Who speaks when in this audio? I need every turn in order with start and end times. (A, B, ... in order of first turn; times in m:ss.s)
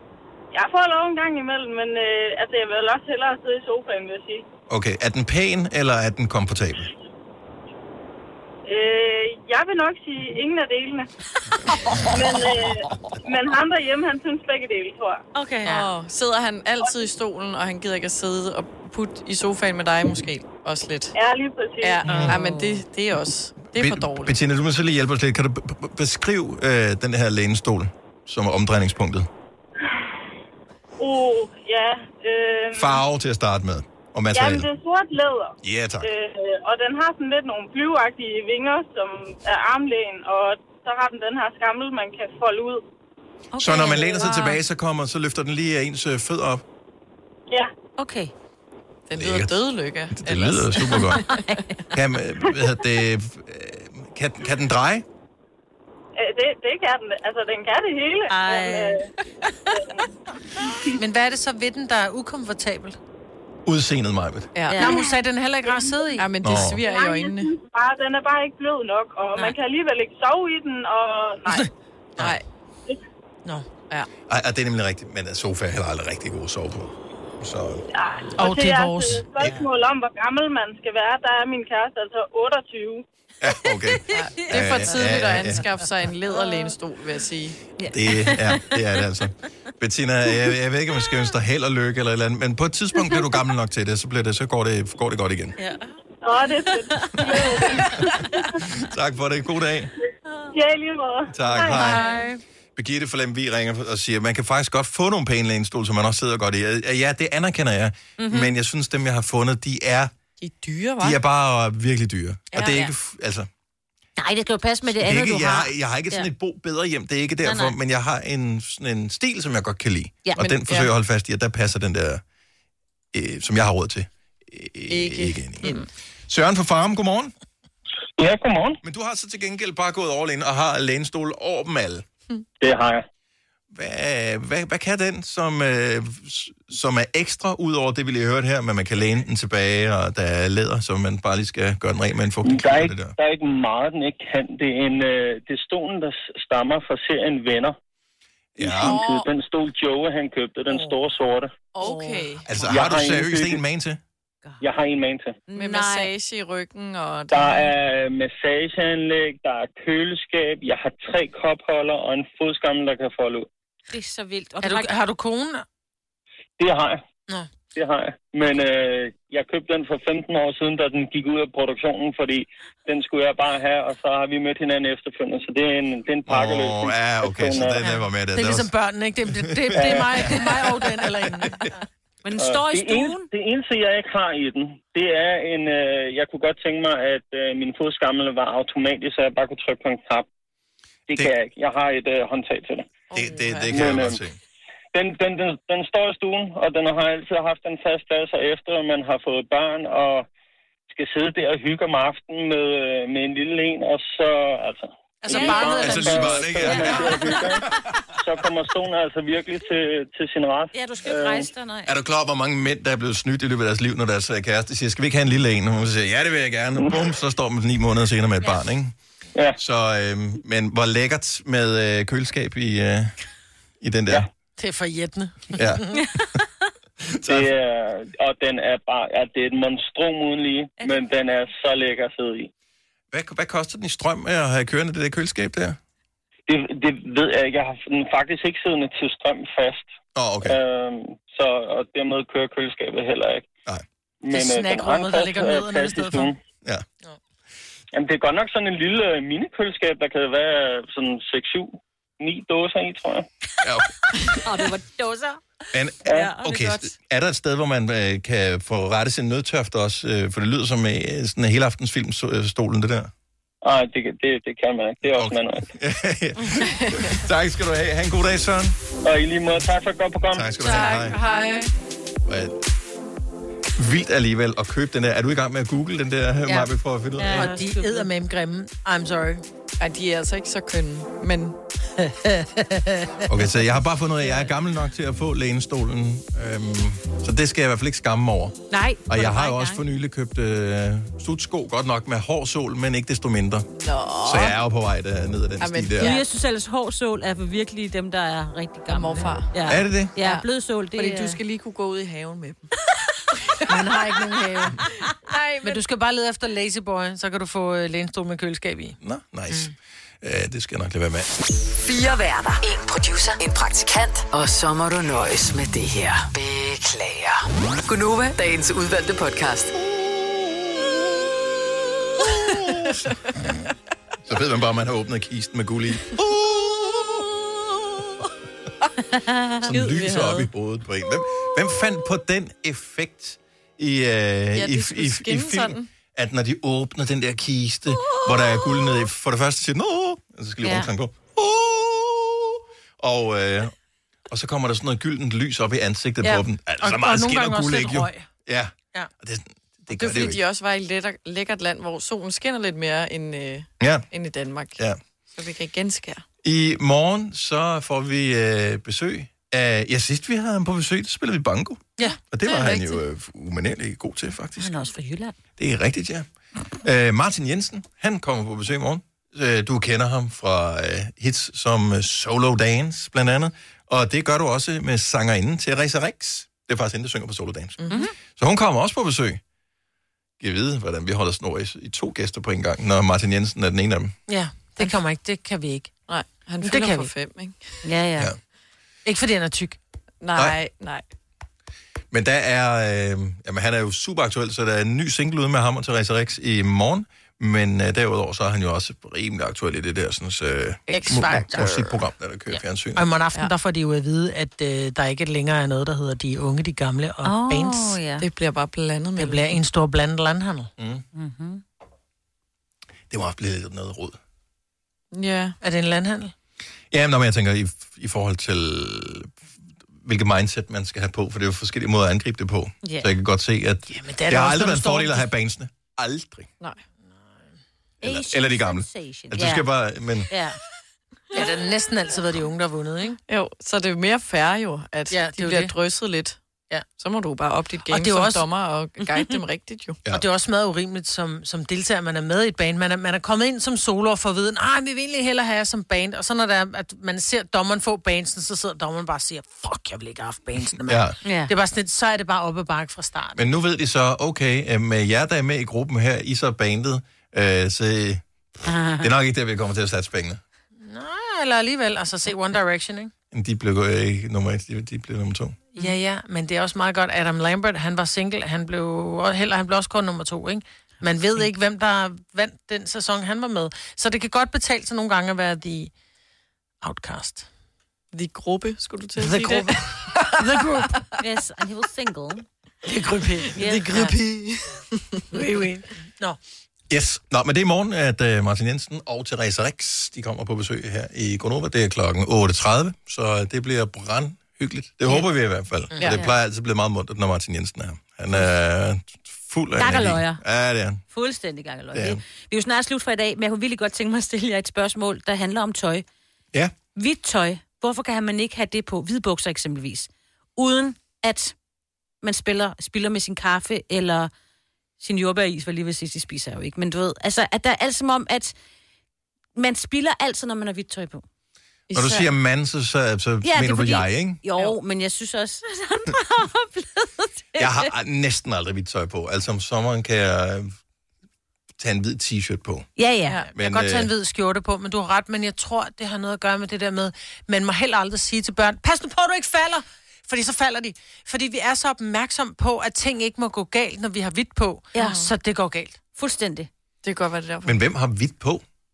0:00.5-0:04.4 A
0:04.7-0:06.9 B
0:08.7-0:11.1 A
0:12.0-0:15.2 A
0:15.3-0:15.8 C
0:15.6-0:21.1 D
0:21.1-0:22.0 A
0:21.8-0:24.3 D
0:22.0-0:22.8 C
0:23.8-0:29.3 B
0:31.0-0:33.0 A
0:32.8-0:34.6 B
0:34.3-0:42.8 A
0:35.6-0:36.1 B
0:43.5-0:44.5 C
0:43.6-0:46.6 B
0:48.0-0:48.3 C
0:49.1-0:51.3 D
0:49.2-0:49.5 B
0:50.1-0:51.2 B
0:51.2-0:51.7 C
0:51.9-0:55.0 B
0:56.2-0:59.1 A
0:58.3-0:59.0 C
0:59.7-1:00.1 A
1:00.6-1:01.0 A
1:01.0-1:03.0 E
1:03.6-1:04.5 B
1:04.5-1:05.0 D
1:04.7-1:05.0 C
1:04.8-1:06.3 E
1:06.2-1:07.5 D
1:06.4-1:06.8 B
1:06.8-1:11.6 A
1:11.5-1:12.3 E
1:12.2-1:12.4 D
1:14.3-1:17.8 B
1:17.9-1:23.0 A
1:18.4-1:19.3 E
1:23.4-1:25.6 B
1:24.1-1:27.6 D
1:27.8-1:28.6 C
1:27.9-1:35.5 B
1:35.6-1:35.9 C
1:36.2-1:38.4 A
1:37.0-1:37.4 C
1:38.7-1:39.9 B
1:40.5-1:42.0 A
1:41.3-1:42.0 B
1:41.6-1:42.4 C
1:42.8-1:50.1 B
1:48.2-1:48.5 C
1:50.4-1:51.2 D
1:51.0-1:53.5 B
1:52.5-1:52.9 D
1:54.2-1:56.3 C
1:54.9-2:02.2 B
1:57.4-1:57.7 C
2:00.4-2:00.9 D
2:03.1-2:05.7 B
2:04.9-2:05.8 D
2:06.3-2:07.3 B
2:08.2-2:08.8 F
2:08.8-2:12.0 B
2:12.6-2:13.0 F
2:13.7-2:23.1 B
2:22.4-2:27.8 F
2:28.6-2:29.0 B
2:28.6-2:29.3 D
2:28.6-2:31.6 F
2:31.7-2:32.5 D
2:31.8-2:32.3 C
2:32.4-2:34.0 B
2:32.6-2:33.6 F
2:34.6-2:35.4 F
2:35.5-2:36.1 C
2:35.5-2:37.6 D
2:37.3-2:43.5 F
2:43.9-2:44.9 C
2:44.6-2:45.6 E
2:46.6-2:47.0 F
2:47.7-2:57.8 F
2:56.3-2:58.7 B
2:57.8-3:01.7 E
2:59.3-3:00.5 B
2:59.8-3:00.2 F
3:02.2-3:03.3 C
3:02.4-3:10.3 F
3:11.1-3:12.9 F
3:13.1-3:13.8 D
3:13.1-3:14.4 B
3:13.7-3:14.2 F
3:14.9-3:20.2 F
3:20.9-3:27.6 F
3:25.2-3:26.3 E
3:25.3-3:27.4 C
3:25.7-3:27.5 B
3:28.2-3:31.5 F
3:30.7-3:31.9 C
3:31.9-3:38.9 B
3:39.6-3:43.1 B
3:43.8-3:44.3 B
3:44.6-3:46.0 E
3:45.5-3:45.8 B
3:47.0-3:47.5 B
3:47.3-3:52.5 F
3:53.1-3:55.8 B
3:56.5-3:59.9 F
4:00.1-4:00.6 B
4:00.4-4:03.5 F
4:04.2-4:06.4 F
4:04.3-4:06.3 E
4:07.9-4:13.2 F
4:13.6-4:13.9 B
4:14.2-4:15.4 C
4:15.7-4:23.1 B
4:16.0-4:16.9 C
4:23.6-4:25.7 F
4:25.0-4:28.8 B
4:26.5-4:27.1 D
4:29.0-4:30.5 F
4:30.3-4:31.2 B
4:30.6-4:31.7 D
4:31.0-4:31.3 E
4:32.2-4:32.6 B
4:33.8-4:37.6 B
4:37.2-4:38.1 C
4:37.3-4:39.4 E
4:39.8-4:41.6 D
4:42.0-4:43.1 E
4:43.3-4:53.7 B
4:48.7-4:49.8 C
4:53.8-4:54.6 D
4:54.2-4:56.2 B
4:55.6-4:56.2 D
4:56.0-5:01.4 C
4:58.9-4:59.5 D
4:59.6-5:00.1 B
5:00.2-5:02.7 D
5:03.5-5:04.0 D
5:03.7-5:04.9 E
5:04.7-5:05.8 D
5:05.6-5:09.0 E
5:09.0-5:11.3 B
5:11.8-5:19.7 G
5:19.8-5:21.2 B
5:22.2-5:23.1 B
5:24.2-5:27.3 B
5:29.1-5:29.8 C
5:29.6-5:43.7 B
5:29.7-5:30.5 D
5:34.6-5:35.9 D
5:40.6-5:40.9 C
5:44.3-5:50.4 B
5:46.2-5:48.2 E
5:49.9-5:54.8 D
5:53.8-5:54.1 B
5:55.3-5:56.2 D
5:56.4-6:04.7 B
6:02.4-6:03.0 D
6:04.6-6:05.4 C
6:05.6-6:06.2 B
6:06.8-6:17.8 B
6:18.3-6:19.4 B
6:20.4-6:24.1 B
6:24.3-6:26.0 E
6:26.1-6:27.8 D
6:26.6-6:27.1 E
6:27.8-6:28.3 C
6:29.0-6:29.8 E
6:30.2-6:31.0 D
6:32.1-6:43.0 B
6:40.9-6:42.0 D
6:41.0-6:41.7 E
6:42.5-6:48.0 E
6:47.2-6:48.2 C
6:48.2-6:49.6 D
6:49.2-6:50.7 E
6:50.8-6:51.0 B
6:51.1-6:51.6 C
6:53.1-6:54.2 B
6:55.1-6:55.6 D
6:55.6-6:56.3 E
6:56.9-6:59.3 B
7:00.0-7:06.5 B
7:02.8-7:03.1 C
7:03.9-7:05.3 E
7:08.0-7:09.7 C
7:08.0-7:10.3 B
7:10.3-7:10.6 C
7:11.3-7:13.2 E
7:13.3-7:16.4 D
7:15.1-7:15.7 E
7:17.0-7:20.0 D
7:17.9-7:18.4 E
7:20.1-7:33.5 E
7:30.8-7:31.1 B
7:31.2-7:31.5 C
7:33.4-7:38.2 B
7:38.6-7:39.1 C
7:39.0-7:40.4 B
7:40.8-7:43.1 E
7:43.3-7:45.6 B
7:45.7-7:55.9 E
7:56.8-7:57.5 E
7:58.1-8:00.2 D
7:59.2-8:01.1 E
8:01.2-8:02.4 C
8:02.8-8:04.2 E
8:03.6-8:03.9 C
8:03.6-8:04.8 D
8:05.3-8:06.4 E
8:06.9-8:21.0 B
8:19.8-8:20.4 C
8:21.1-8:26.0 C
8:21.9-8:22.2 B
8:27.0-8:31.5 C
8:32.2-8:34.3 C
8:35.0-8:38.5 C
8:39.6-8:41.2 C
8:41.9-8:42.3 D
8:41.9-8:44.4 B
8:43.4-8:47.9 C
8:47.6-8:50.7 B
8:51.8-8:52.9 B
8:53.0-8:53.4 C
8:53.5-9:06.0 E
8:53.5-8:54.1 B
9:04.9-9:05.2 C
9:05.0-9:05.3 D
9:06.2-9:06.7 C
9:07.0-9:07.8 D
9:07.6-9:08.6 B